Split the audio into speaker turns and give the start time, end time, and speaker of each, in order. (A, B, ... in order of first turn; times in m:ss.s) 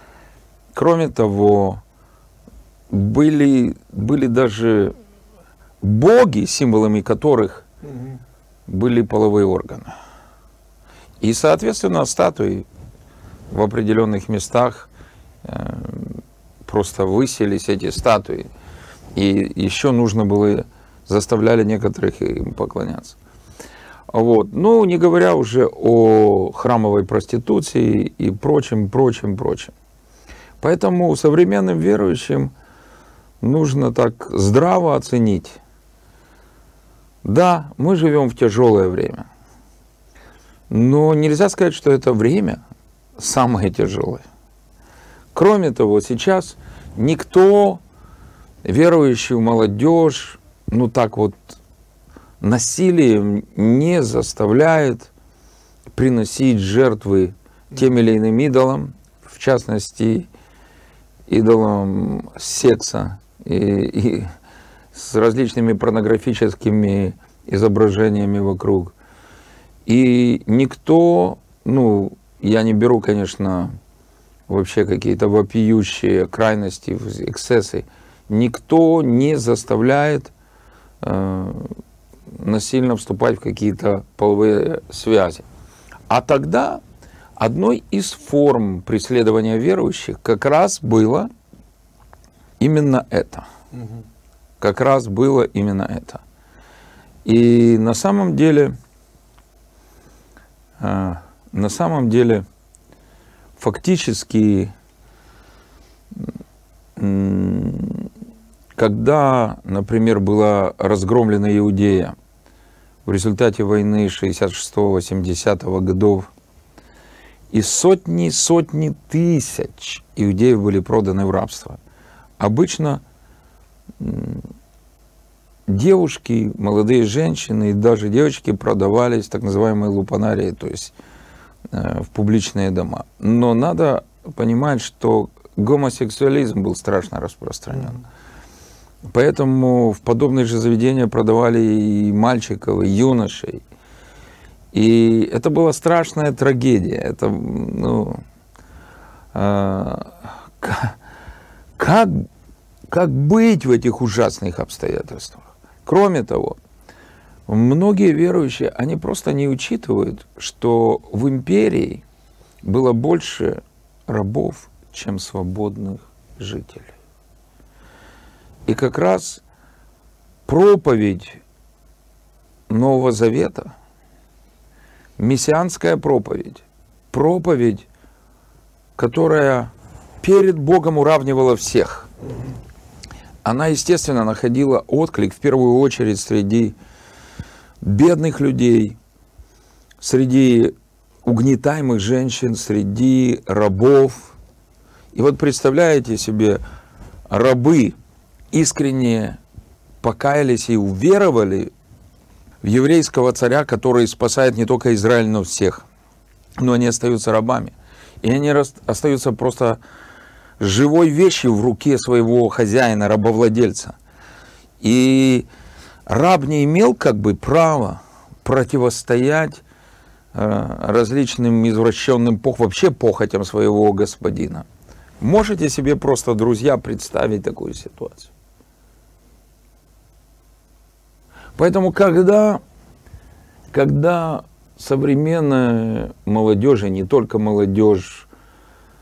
0:00.7-0:01.8 A
0:02.9-0:05.0 A
0:05.8-0:07.6 A
0:08.7-0:09.9 A
0:11.2-0:12.7 A
0:13.5-0:14.9 A
0:15.4-0:18.5 A
0:19.2-0:23.2 A
0:24.1-0:29.7 A
0:30.6-0:32.5 A
0:33.4-0:35.6 A
0:37.2-0:39.3 A
0:40.7-0:42.6 A
0:43.2-0:44.2 A
0:45.3-0:47.8 A
0:48.6-0:51.6 A
0:52.4-0:55.1 A
0:55.9-1:00.3 A
1:01.3-1:04.3 A
1:04.9-1:08.9 A
1:09.9-1:13.7 A
1:14.5-1:20.3 A
1:21.0-1:21.8 A
1:22.3-1:25.5 A
1:26.1-1:26.8 A
1:27.4-1:31.3 A
1:32.6-1:33.5 A
1:34.6-1:36.2 A
1:37.2-1:38.8 A
1:40.8-1:42.4 A
1:43.6-1:44.7 A
1:47.0-1:48.1 A
1:48.8-1:52.2 A
1:53.0-1:56.3 A
1:57.5-2:01.8 A
2:02.4-2:03.0 A
2:04.0-2:04.5 A
2:05.7-2:10.9 A
2:11.7-2:18.0 A
2:19.0-2:23.6 A
2:24.7-2:28.2 A
2:29.3-2:31.0 A
2:31.8-2:32.3 A
2:32.9-2:36.6 A
2:37.5-2:42.0 A
2:42.6-2:46.9 A
2:48.7-2:49.4 A
2:50.5-2:51.4 A
2:52.7-2:53.7 A
2:55.2-2:57.9 A
2:59.0-3:02.1 A
3:03.4-3:06.8 A
3:07.8-3:09.0 A
3:10.0-3:14.4 A
3:15.1-3:16.6 A
3:17.3-3:18.0 A
3:18.5-3:19.4 A
3:20.0-3:21.7 A
3:22.6-3:25.8 A
3:26.6-3:29.8 A
3:30.6-3:34.0 A
3:34.8-3:35.5 A
3:36.1-3:39.6 A
3:40.3-3:44.7 A
3:45.2-3:48.3 A
3:51.6-3:52.6 A
3:53.7-3:58.3 A